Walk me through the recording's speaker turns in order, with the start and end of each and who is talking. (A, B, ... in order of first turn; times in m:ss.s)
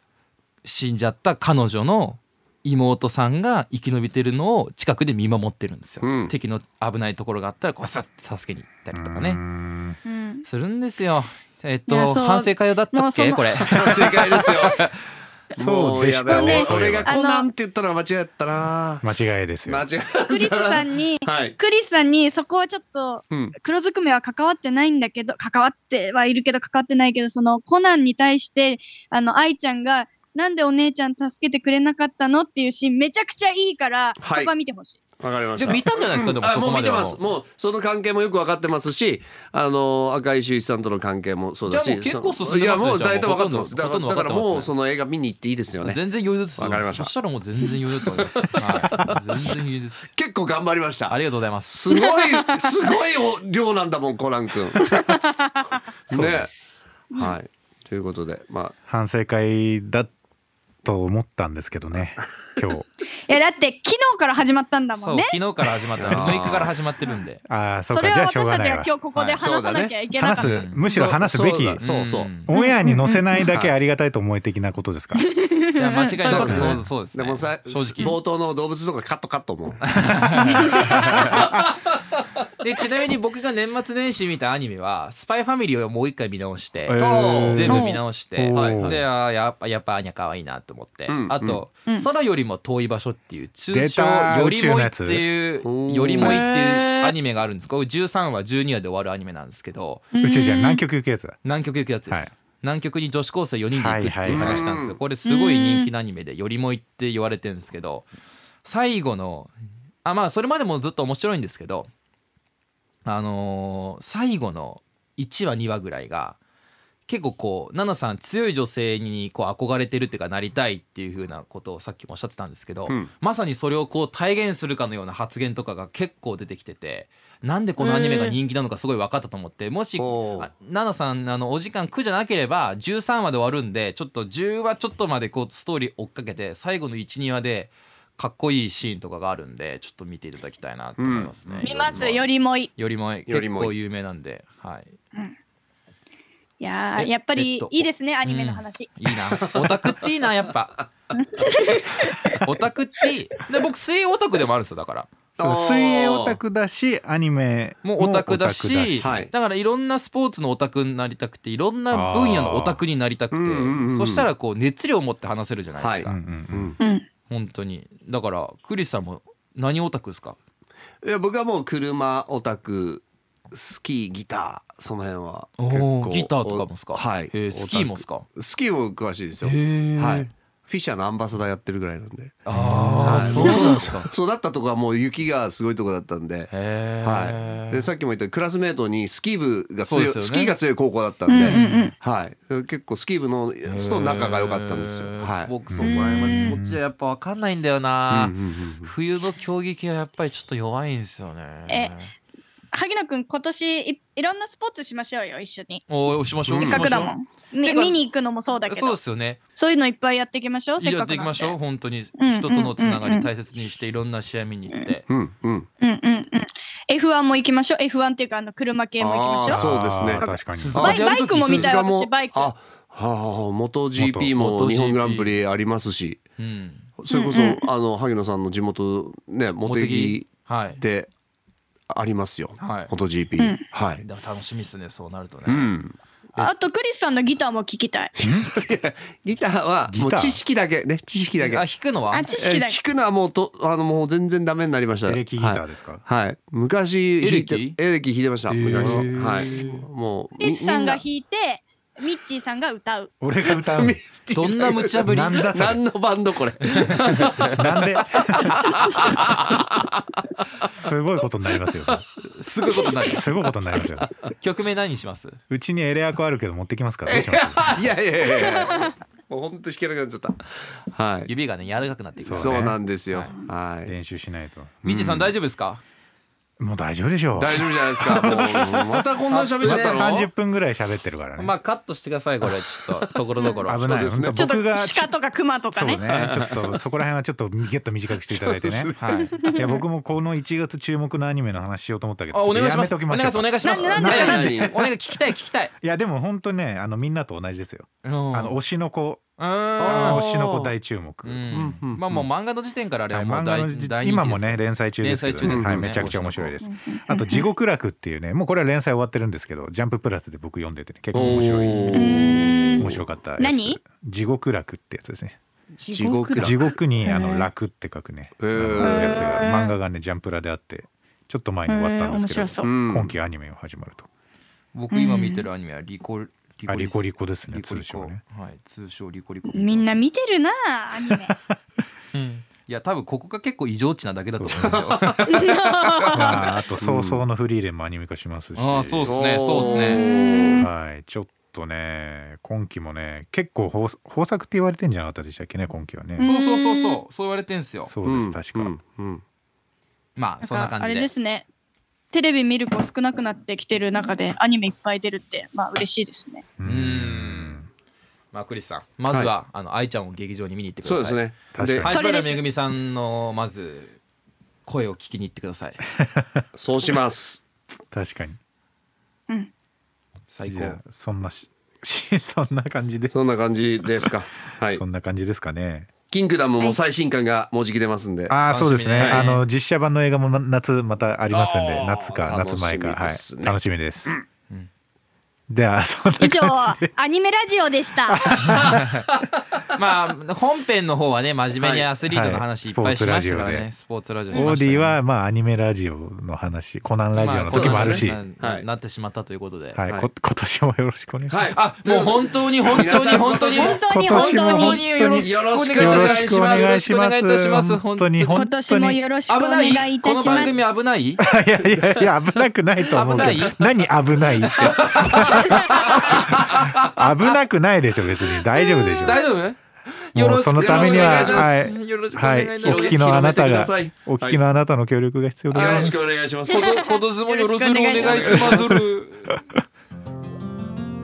0:00.6-0:09.4 A
0:06.0-0:06.3 B
0:08.9-0:10.0 C
0:10.0-0:10.4 D
0:10.5-0:15.0 A
0:11.9-0:14.7 D
0:13.7-0:14.8 B
0:15.5-0:19.1 B
0:15.6-0:17.1 C
0:16.3-0:17.5 D
0:19.0-0:19.8 C
0:19.6-0:21.6 B
0:20.3-0:35.0 D
0:34.2-0:34.5 B
0:35.2-0:46.0 B
0:35.6-0:37.2 A
0:41.7-0:44.7 A
0:45.8-0:50.1 A
0:46.6-0:47.1 B
0:47.9-0:49.2 B
0:50.1-0:55.2 B
0:51.1-0:51.9 A
0:51.9-0:52.7 D
0:54.8-0:55.7 D
0:56.1-0:56.5 C
0:56.1-0:56.5 B
0:57.1-0:58.7 B
0:58.9-1:00.1 C
1:00.8-1:02.9 C
1:03.3-1:05.4 D
1:04.9-1:07.4 A
1:06.0-1:06.7 B
1:06.1-1:06.5 C
1:07.5-1:08.9 C
1:07.9-1:10.7 D
1:09.4-1:09.9 B
1:10.2-1:15.3 C
1:10.4-1:10.8 A
1:10.8-1:12.3 B
1:11.8-1:12.5 A
1:12.5-1:13.2 D
1:15.2-1:16.8 D
1:15.8-1:18.2 A
1:16.2-1:21.7 B
1:19.9-1:21.6 A
1:20.6-1:21.0 D
1:22.6-1:40.1 A
1:26.9-1:29.0 C
1:27.0-1:27.8 B
1:27.7-1:28.0 D
1:28.5-1:29.0 B
1:31.1-1:31.6 B
1:33.7-1:35.2 C
1:35.6-1:36.4 B
1:36.2-1:37.1 D
1:40.1-1:40.8 D
1:40.2-1:41.4 C
1:41.4-1:48.1 A
1:43.7-1:44.6 C
1:44.3-1:45.0 B
1:45.2-1:45.9 D
1:48.6-1:49.5 A
1:50.0-1:51.9 A
1:53.0-1:56.4 A
1:57.1-2:22.2 A
2:07.8-2:08.3 D
2:10.0-2:10.5 B
2:21.0-2:22.2 B
2:21.6-2:22.7 D
2:22.8-2:24.9 A
2:23.3-2:23.7 B
2:26.6-2:28.9 D
2:27.0-2:30.9 A
2:31.1-2:32.4 D
2:32.3-2:35.1 A
2:35.4-2:36.4 B
2:35.4-2:39.1 C
2:37.8-2:46.2 A
2:39.0-2:39.3 B
2:41.9-2:42.8 C
2:43.3-2:44.3 B
2:45.8-2:46.8 B
2:46.0-2:46.7 C
2:46.8-2:47.0 D
2:47.3-2:50.4 A
2:51.0-3:02.4 B
2:55.6-2:58.3 A
2:59.4-3:00.3 A
3:02.4-3:04.1 A
3:02.5-3:03.3 C
3:03.0-3:06.5 B
3:03.3-3:03.8 D
3:06.5-3:07.9 A
3:07.0-3:15.5 B
3:09.8-3:10.5 A
3:11.3-3:11.9 D
3:13.6-3:22.1 A
3:15.7-3:16.8 C
3:15.8-3:16.5 D
3:18.1-3:18.9 B
3:21.7-3:21.9 D
3:22.7-3:25.8 D
3:25.9-3:28.0 A
3:26.5-3:27.0 B
3:26.6-3:29.0 D
3:28.7-3:29.4 A
3:29.5-3:31.6 D
3:30.8-3:35.0 A
3:32.2-3:33.3 D
3:35.1-3:35.7 B
3:35.8-3:42.5 D
3:39.0-3:46.2 B
3:39.5-3:40.9 C
3:40.5-3:41.7 A
3:44.0-3:44.3 C
3:44.3-3:45.4 A
3:46.4-3:46.9 A
3:47.0-3:51.1 B
3:47.1-3:47.7 D
3:49.6-3:50.8 A
3:51.9-3:54.0 B
3:52.6-3:52.9 A
3:54.0-3:55.7 A
3:55.5-3:56.5 B
3:56.4-3:58.1 D
3:58.2-4:01.6 B
3:58.2-3:58.5 C
3:59.9-4:00.4 C
4:01.4-4:02.3 A
4:02.1-4:02.8 D
4:02.3-4:11.0 B
4:05.0-4:06.0 C
4:07.2-4:07.8 A
4:08.5-4:09.8 A
4:08.7-4:09.1 C
4:10.4-4:13.1 D
4:13.2-4:14.0 C
4:13.5-4:19.9 B
4:14.3-4:15.6 A
4:15.0-4:15.8 C
4:16.8-4:17.6 A
4:17.5-4:19.0 C
4:19.0-4:19.3 A
4:20.6-4:22.0 C
4:22.2-4:23.3 A
4:23.0-4:24.1 C
4:24.4-4:25.4 A
4:25.5-4:27.8 C
4:27.1-4:30.4 B
4:30.9-4:31.3 B
4:31.3-4:33.3 A
4:32.2-4:32.8 C
4:32.3-4:33.9 B
4:33.8-4:35.3 C
4:34.8-4:35.8 A
4:36.6-4:38.6 C
4:37.4-4:40.3 B
4:39.3-4:39.8 A
4:39.6-4:41.5 C
4:39.7-4:40.0 D
4:41.4-4:44.0 A
4:43.6-4:45.1 C
4:43.8-4:44.3 B
4:44.3-4:46.0 D
4:45.7-4:48.9 C
4:46.1-4:46.8 B
4:48.3-4:49.2 B
4:49.0-4:49.4 A
4:49.4-4:49.8 D
4:49.5-4:54.9 C
4:52.3-4:55.7 A
4:53.6-4:54.5 D
4:54.0-4:54.9 B
4:55.8-4:59.3 C
4:58.0-4:58.6 A
4:59.4-5:00.3 A
4:59.8-5:00.7 B
4:59.8-5:02.3 C
5:01.2-5:06.5 A
5:01.5-5:02.0 B
5:03.1-5:15.4 C
5:05.4-5:06.1 B
5:06.6-5:07.5 D
5:11.1-5:12.5 B
5:11.2-5:12.2 A
5:11.9-5:13.8 D
5:15.8-5:17.5 D
5:15.9-5:16.7 B
5:16.4-5:24.1 C
5:18.4-5:19.4 B
5:18.8-5:19.7 D
5:21.7-5:22.7 D
5:22.6-5:23.1 B
5:24.7-5:30.0 A
5:24.9-5:25.4 D
5:26.7-5:28.2 C
5:29.5-5:31.3 D
5:32.1-5:36.1 A
5:34.4-5:34.8 C
5:34.5-5:35.5 B
5:35.3-5:36.4 D
5:36.1-5:39.2 C
5:36.8-5:37.2 B
5:38.6-5:40.0 A
5:39.0-5:40.6 B
5:39.6-5:40.7 D
5:40.6-5:46.2 C
5:46.2-5:47.0 D
5:46.2-5:47.9 A
5:47.8-5:48.7 C
5:48.0-5:49.2 B
5:50.2-5:51.1 A
5:50.4-5:51.4 D
5:52.1-5:56.4 D
5:56.6-5:57.7 C
5:56.6-5:57.7 A
5:58.3-6:01.2 A
6:00.8-6:01.9 B
6:01.5-6:01.9 C
6:01.8-6:04.0 A
6:01.9-6:02.4 D
6:04.6-6:05.9 A
6:06.0-6:06.4 C
6:06.5-6:07.4 B
6:07.9-6:08.4 C
6:10.3-6:10.8 A
6:10.5-6:13.1 C
6:13.1-6:14.8 B
6:14.7-6:15.9 C
6:16.1-6:18.3 B
6:18.3-6:24.2 C
6:18.5-6:19.4 A
6:19.0-6:19.2 B
6:21.3-6:24.2 B
6:25.5-6:26.9 C
6:26.2-6:28.3 D
6:28.1-6:28.8 C
6:28.4-6:35.0 A
6:31.6-6:31.9 B
6:32.1-6:33.7 C
6:34.3-6:38.2 C
6:37.2-6:39.8 A
6:37.5-6:38.6 B
6:39.7-6:41.4 C
6:41.3-6:43.8 B
6:41.5-6:48.4 A
6:43.4-6:44.8 D
6:43.9-6:49.0 C
6:45.1-6:46.9 B
6:48.3-6:50.6 D
6:49.3-6:51.2 A
6:51.2-6:59.3 C
6:51.6-6:52.0 B
6:52.9-6:53.9 A
6:53.0-6:53.4 B
6:54.4-6:56.9 A
6:55.1-6:56.4 B
6:58.6-6:59.2 D
6:59.0-7:03.3 A
7:00.1-7:06.1 C
7:00.6-7:01.5 B
7:02.6-7:04.4 B
7:05.5-7:06.8 B
7:05.5-7:05.9 A
7:06.5-7:08.8 D
7:06.5-7:09.3 A
7:08.0-7:08.7 B
7:08.5-7:09.4 C